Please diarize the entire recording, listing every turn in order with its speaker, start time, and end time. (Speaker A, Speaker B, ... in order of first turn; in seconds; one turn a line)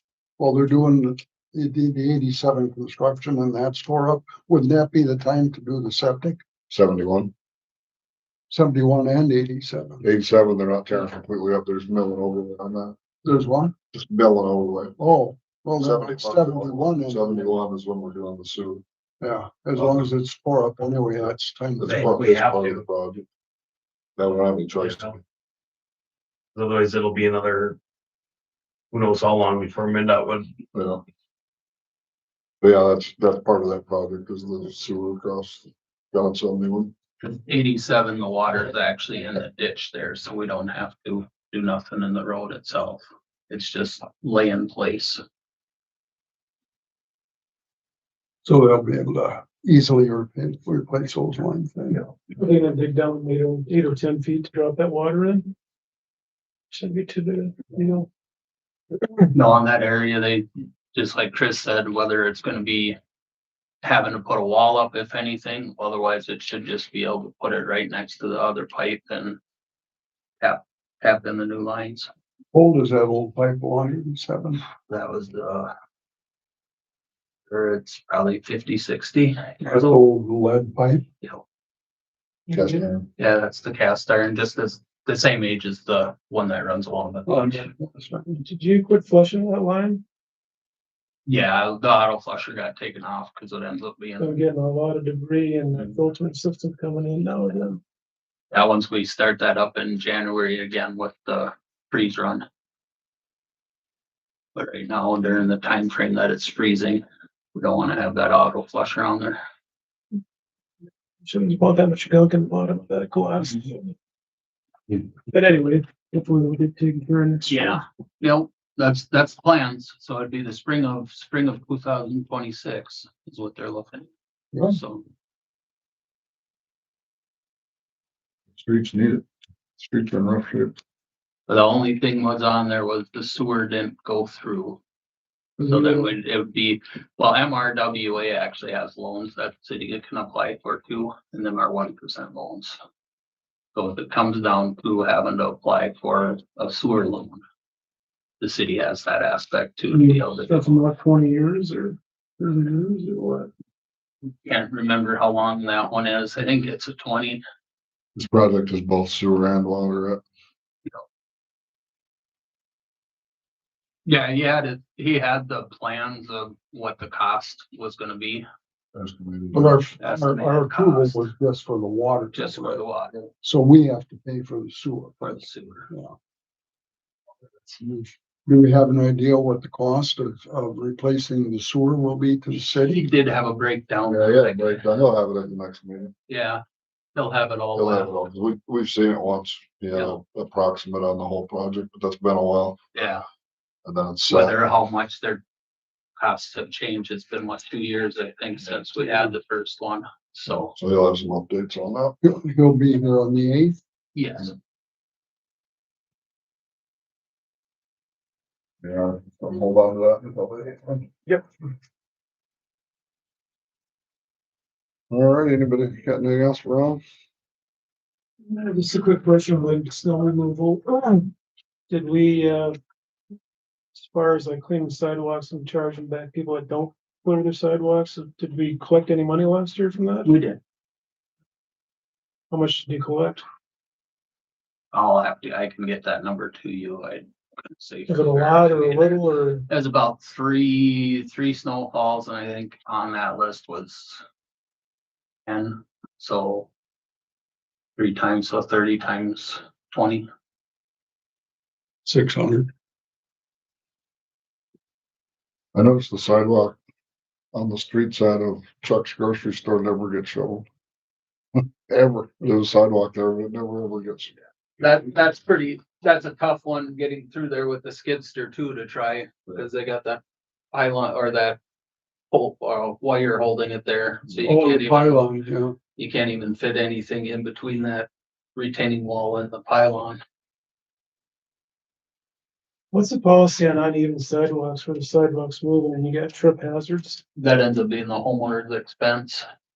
Speaker A: 0.4-6.4
Speaker B: 6.7-7.3
Speaker A: 8.5-10.1
Speaker B: 10.0-12.9
Speaker A: 13.2-13.7
Speaker B: 13.9-15.0
Speaker A: 15.0-17.5
Speaker B: 15.8-18.8
Speaker A: 19.2-22.0
Speaker B: 21.8-23.2
Speaker C: 21.8-22.8
Speaker B: 24.2-25.2
Speaker C: 24.7-25.1
Speaker C: 26.5-27.8
Speaker C: 28.9-30.6
Speaker B: 30.7-31.0
Speaker B: 32.6-36.9
Speaker D: 37.2-45.2
Speaker A: 48.4-52.1
Speaker E: 52.3-55.5
Speaker E: 56.7-58.1
Speaker D: 59.3-63.0
Speaker D: 63.8-69.4
Speaker D: 70.4-72.1
Speaker A: 72.5-74.6
Speaker D: 74.9-75.7
Speaker D: 77.5-79.6
Speaker A: 79.6-81.0
Speaker E: 82.5-83.0
Speaker B: 82.5-83.0
Speaker D: 83.2-87.7
Speaker A: 87.3-88.4
Speaker E: 88.3-90.0
Speaker D: 91.2-94.4
Speaker E: 94.2-97.8
Speaker D: 98.5-102.5
Speaker D: 104.5-107.0
Speaker D: 107.5-109.4
Speaker E: 111.2-113.9
Speaker E: 114.9-117.8
Speaker D: 117.5-124.1
Speaker A: 124.5-124.8
Speaker D: 124.7-125.1
Speaker B: 128.5-129.2
Speaker B: 129.8-130.7
Speaker D: 131.5-134.8
Speaker D: 135.6-142.8
Speaker D: 143.7-147.4
Speaker D: 148.4-150.7
Speaker E: 149.9-153.5
Speaker D: 154.4-157.4
Speaker B: 158.2-160.2
Speaker D: 164.0-168.4
Speaker B: 168.9-169.8
Speaker A: 169.5-172.8
Speaker D: 170.0-171.2
Speaker D: 172.3-173.2
Speaker A: 173.4-176.1
Speaker D: 175.2-175.9
Speaker A: 177.7-183.1
Speaker D: 182.8-184.8
Speaker B: 184.1-186.1
Speaker D: 186.3-186.6
Speaker D: 187.1-188.1
Speaker B: 187.8-193.1
Speaker D: 189.9-190.2
Speaker D: 192.9-193.2
Speaker B: 193.8-194.8
Speaker D: 194.3-195.4
Speaker D: 196.2-200.8
Speaker B: 200.8-202.2
Speaker A: 202.2-203.8
Speaker D: 204.1-204.5
Speaker B: 208.8-211.4
Speaker B: 215.1-217.0
Speaker E: 218.5-221.3
Speaker E: 221.9-222.7
Speaker E: 223.9-230.4
Speaker D: 230.2-230.6
Speaker E: 232.5-233.4
Speaker D: 234.9-244.2
Speaker E: 238.1-239.7
Speaker D: 245.4-246.7
Speaker D: 247.9-250.3
Speaker A: 252.0-252.7
Speaker B: 255.7-256.8
Speaker B: 257.5-260.6
Speaker B: 261.6-264.3
Speaker D: 264.8-270.2
Speaker D: 270.7-271.6
Speaker D: 272.3-275.2
Speaker A: 274.3-275.8
Speaker D: 275.9-280.2
Speaker E: 282.9-287.2
Speaker D: 287.4-289.4